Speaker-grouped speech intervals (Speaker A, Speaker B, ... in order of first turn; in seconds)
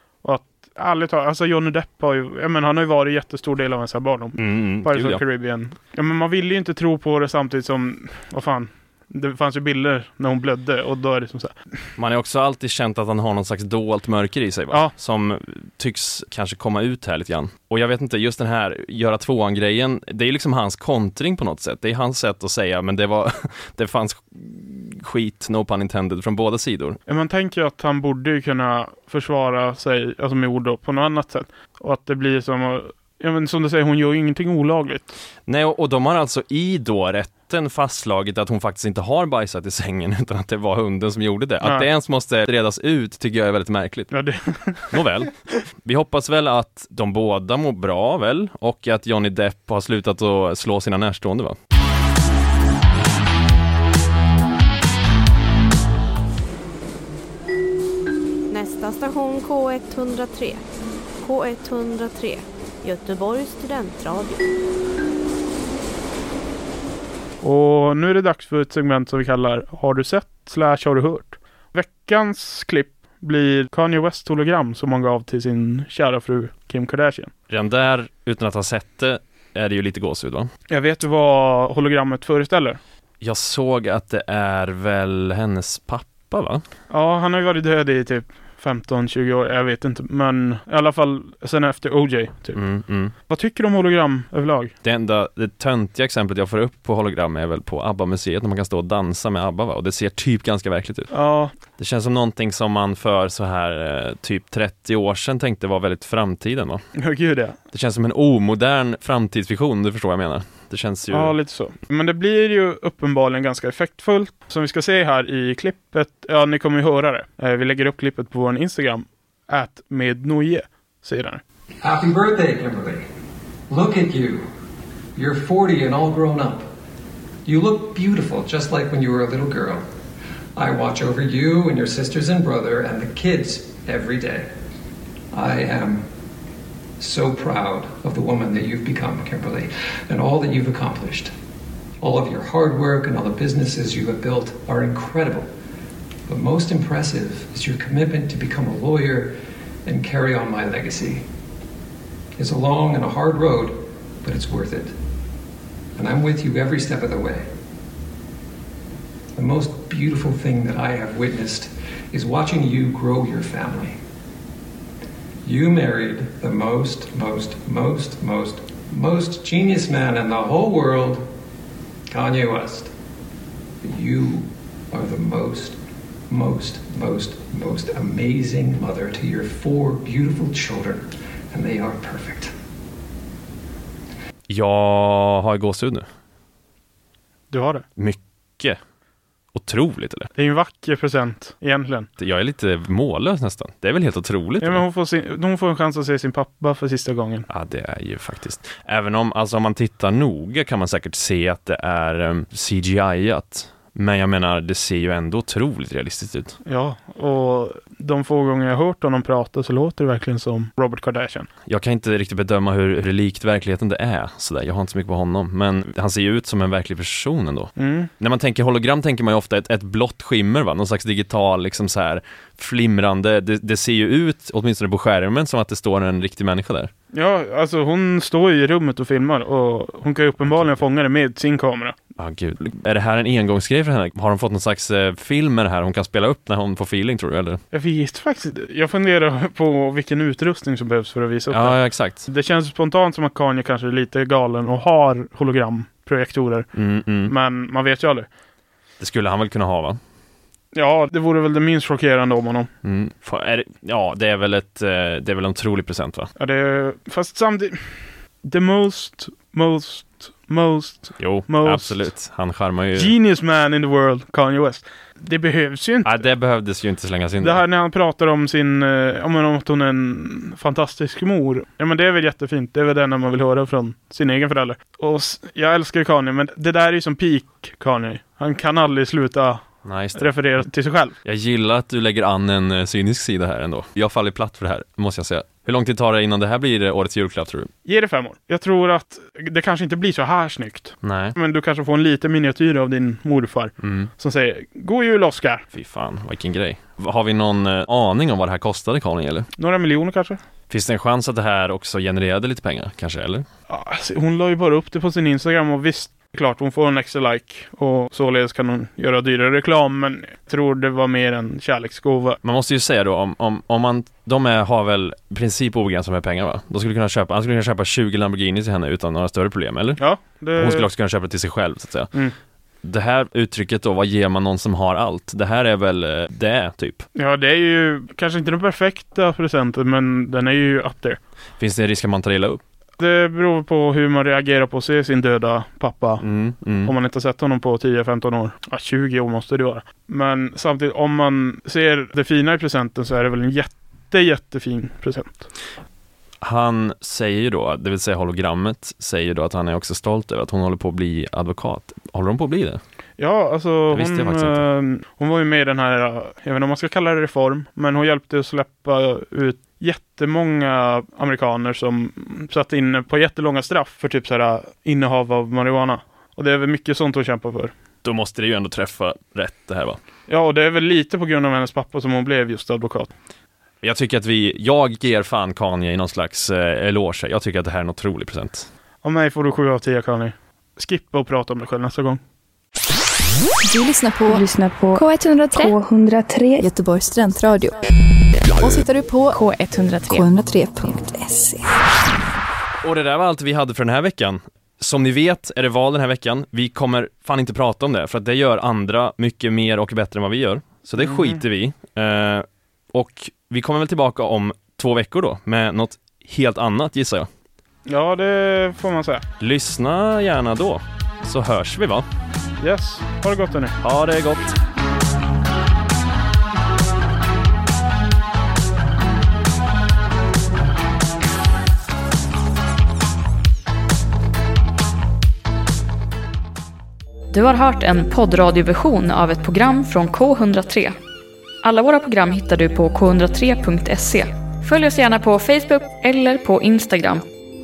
Speaker A: 0.2-11.6, 27.1-35.1, 41.6-41.9, 44.1-45.0, 67.4-77.3, 80.7-82.8, 86.9-92.6, 93.3-94.7, 101.1-101.5, 106.9-107.5, 111.1-121.4, 187.5-187.8, 190.3-192.1, 194.6-197.4, 206.6-211.5, 217.8-218.1, 227.1-231.9, 237.7-246.7, 247.2-248.3, 250.7-252.7, 256.4-262.1, 262.9-266.2, 267.4-279.6, 280.1-281.1, 287.8-295.6, 299.6-300.4, 303.7-312.4, 320.0-320.9, 327.1-331.2, 333.0-336.2, 336.8-345.5, 353.2-367.7, 370.3-373.1, 379.0-382.2, 401.0-401.4, 407.9-409.2, 412.6-413.7
Speaker B: 4.4-5.2, 12.0-27.0, 35.5-44.1, 44.9-45.3, 45.8-51.5, 77.5-80.5, 83.2-86.6, 92.5-93.1, 94.8-101.1, 101.8-106.8, 107.7-111.3, 184.5-186.1, 188.0-188.8, 189.5-190.3, 192.2-194.8, 197.5-206.6, 211.7-226.9, 232.2-237.6, 241.5-242.3, 246.7-247.3, 249.0-250.0, 252.8-256.3, 261.2-263.1, 266.0-267.6, 279.8-280.3, 281.2-287.7, 291.0-291.4, 293.8-294.1, 295.7-299.5, 300.7-303.4, 312.4-320.0, 320.6-322.1, 322.8-327.0, 331.6-332.6, 336.2-336.9, 346.4-352.8, 353.9-354.6, 368.0-370.0, 373.8-378.7, 392.8-407.3, 409.4-412.1, 413.8-414.6
Speaker C: 58.5-60.6, 61.2-64.4, 384.3-385.0
Speaker D: 121.8-123.0, 123.7-124.4, 125.1-126.7, 127.4-129.8, 130.6-134.5, 135.3-136.0, 137.0-141.3, 142.0-145.4, 146.3-149.3, 149.8-151.2, 152.4-154.9, 156.0-157.4, 159.3-163.9, 165.4-171.2, 172.1-172.9, 173.8-175.8, 176.3-182.5
Speaker E: 383.6-387.8, 388.6-391.7
Speaker F: 427.3-430.9, 431.6-437.2